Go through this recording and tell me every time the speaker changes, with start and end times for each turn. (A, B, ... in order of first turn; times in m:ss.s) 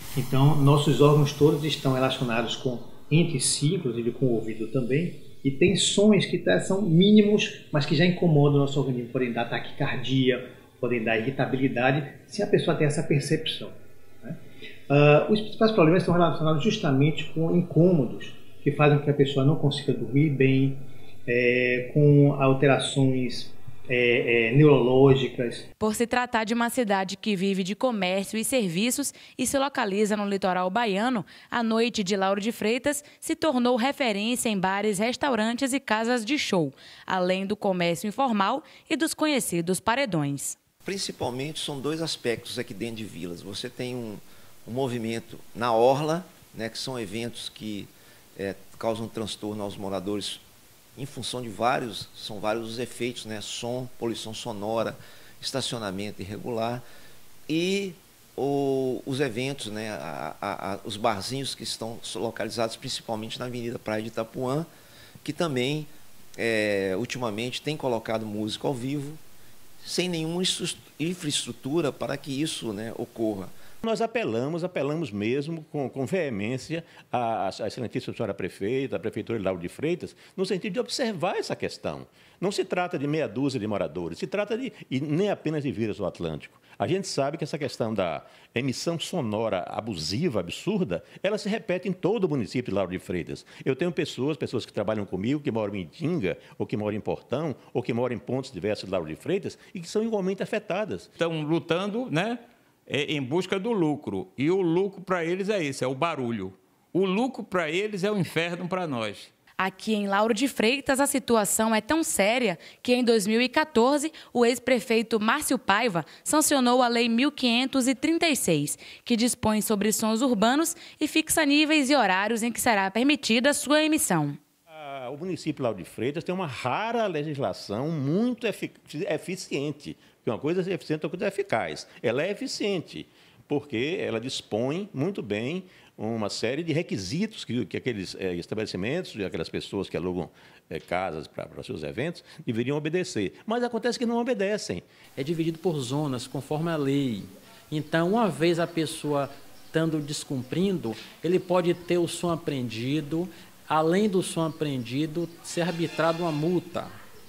0:00.1-0:14.4 A
0:14.9-0:25.6 A
0:25.8-0:40.6 B
0:40.8-0:50.4 C
0:51.0-0:56.8 C
0:57.5-1:04.7 C
1:05.2-1:09.2 C
1:09.8-1:13.5 C
1:13.8-1:41.1 D
1:41.2-1:49.3 E
1:49.6-2:04.4 B
2:04.7-2:24.8 D
2:25.2-2:36.9 F